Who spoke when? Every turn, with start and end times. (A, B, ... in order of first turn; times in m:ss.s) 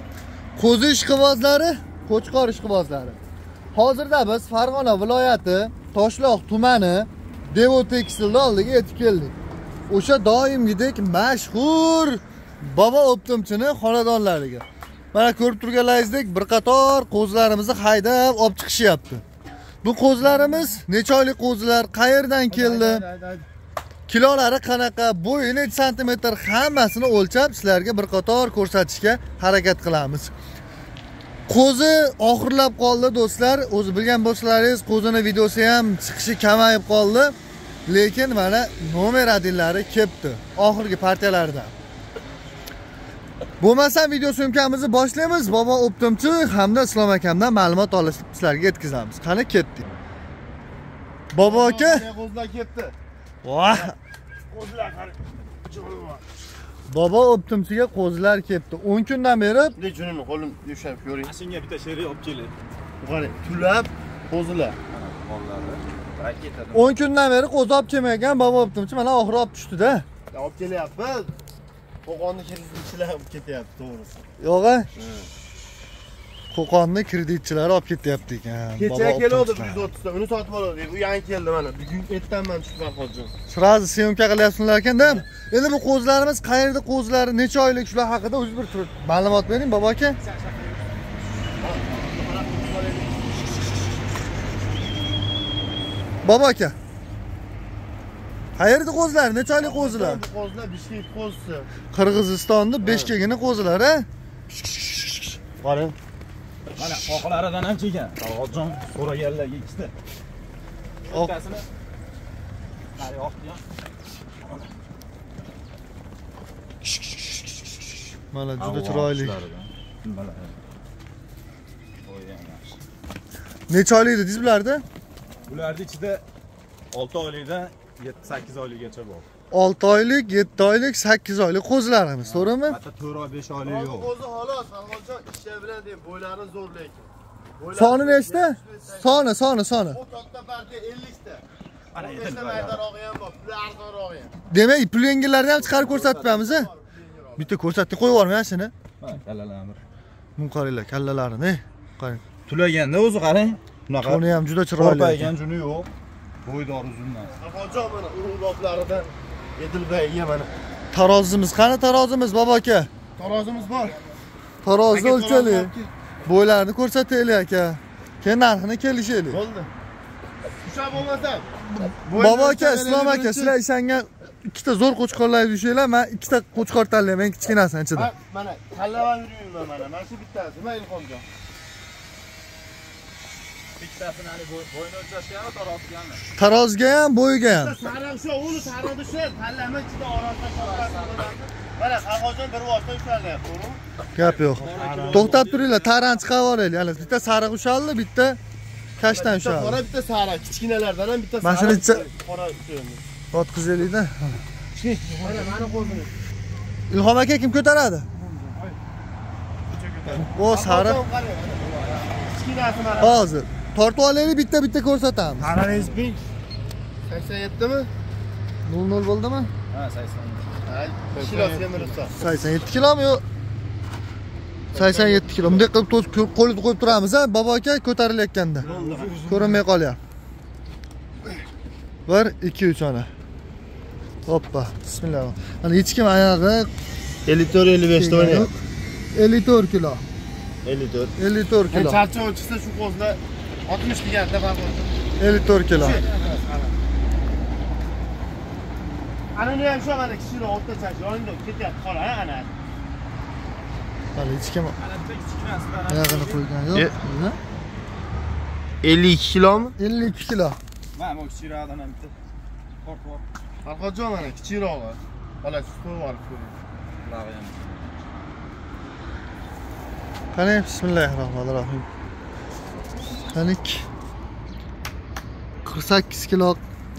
0:00.6-0:03.2 A
0:03.7-0:09.3 A
0:09.9-0:19.2 A
0:19.8-0:23.0 A
0:22.5-0:23.5 B
0:24.1-0:30.3 A
0:31.5-0:37.3 A
0:37.9-0:41.7 A
0:43.6-0:49.9 A
0:51.3-0:52.0 A
0:51.4-0:52.9 B
0:53.4-0:53.9 A
0:54.4-0:56.2 B
0:56.9-0:59.8 A
0:59.8-1:01.3 B
1:01.2-1:02.5 C
1:03.0-1:04.8 B
1:04.9-1:07.0 C
1:06.7-1:10.0 A
1:10.3-1:11.3 B
1:12.0-1:14.1 B
1:14.4-1:14.9 A
1:15.0-1:15.3 B
1:16.5-1:19.9 A
1:18.8-1:23.3 B
1:23.5-1:30.2 A
1:25.0-1:25.2 B
1:30.3-1:30.6 C
1:31.6-1:33.2 B
1:36.2-1:36.7 A
1:38.6-1:40.2 A
1:39.6-1:41.7 B
1:41.9-1:44.0 A
1:42.8-1:43.2 B
1:45.6-1:45.9 B
1:46.8-1:49.9 C
1:51.1-1:51.6 C
1:53.0-1:53.6 C
1:58.3-1:59.4 A
1:58.6-2:00.5 C
2:02.0-2:02.8 C
2:03.7-2:04.8 A
2:05.5-2:06.2 C
2:06.9-2:09.2 C
2:09.5-2:12.8 A
2:12.2-2:14.1 C
2:13.6-2:19.3 B
2:17.7-2:20.0 A
2:19.9-2:24.3 B
2:21.9-2:22.8 C
2:24.5-2:26.7 A
2:25.6-2:25.9 C
2:25.8-2:27.5 B
2:27.4-2:28.7 A
2:29.0-2:29.8 C
2:30.4-2:32.2 A
2:32.4-2:34.2 C
2:34.0-2:35.3 A
2:34.8-2:35.9 C
2:36.4-2:37.3 C
2:37.4-2:40.5 B
2:40.9-2:42.9 A
2:43.2-2:44.0 B
2:44.6-2:45.7 A
2:44.9-2:45.9 B
2:46.2-2:49.4 A
2:49.3-2:49.7 B
2:50.6-2:51.5 B
2:51.7-2:58.1 A
2:52.0-2:53.6 B
2:57.9-3:01.2 B
3:03.8-3:06.2 C
3:06.3-3:07.8 A
3:07.4-3:13.8 B
3:10.5-3:11.3 C
3:14.1-3:18.4 A
3:14.2-3:16.8 C
3:14.6-3:15.4 B
3:19.0-3:19.8 A
3:19.0-3:23.0 B
3:21.4-3:22.0 A
3:23.3-3:24.4 A
3:25.2-3:26.1 B
3:26.9-3:28.1 A
3:30.1-3:31.0 A
3:30.5-3:33.2 B
3:31.6-3:32.2 C
3:33.0-3:35.6 A
3:35.4-3:36.2 B
3:37.1-3:37.9 B
3:38.6-3:39.5 A
3:39.7-3:40.5 C
3:40.6-3:42.1 B
3:41.2-3:41.9 C
3:42.2-3:43.2 A
3:44.7-3:45.7 B
3:44.7-3:48.7 A
3:48.6-3:49.2 B
3:48.6-3:49.6 C
3:49.2-3:50.0 A
3:52.1-3:53.1 A
3:54.2-3:56.7 A
3:57.2-3:58.5 B
3:57.9-3:58.5 A
3:59.1-4:00.0 A
4:00.6-4:01.1 B
4:01.2-4:02.0 A
4:01.7-4:04.9 B
4:05.2-4:06.0 A
4:05.7-4:06.8 B
4:09.3-4:12.5 B
4:14.1-4:14.8 A
4:14.8-4:16.4 C
4:15.9-4:17.4 A
4:18.8-4:19.8 B
4:19.8-4:20.6 A
4:20.9-4:22.1 C
4:22.8-4:23.2 C
4:23.6-4:26.6 B
4:27.0-4:28.0 C
4:30.3-4:31.9 A
4:33.1-4:33.8 A
4:35.6-4:36.6 A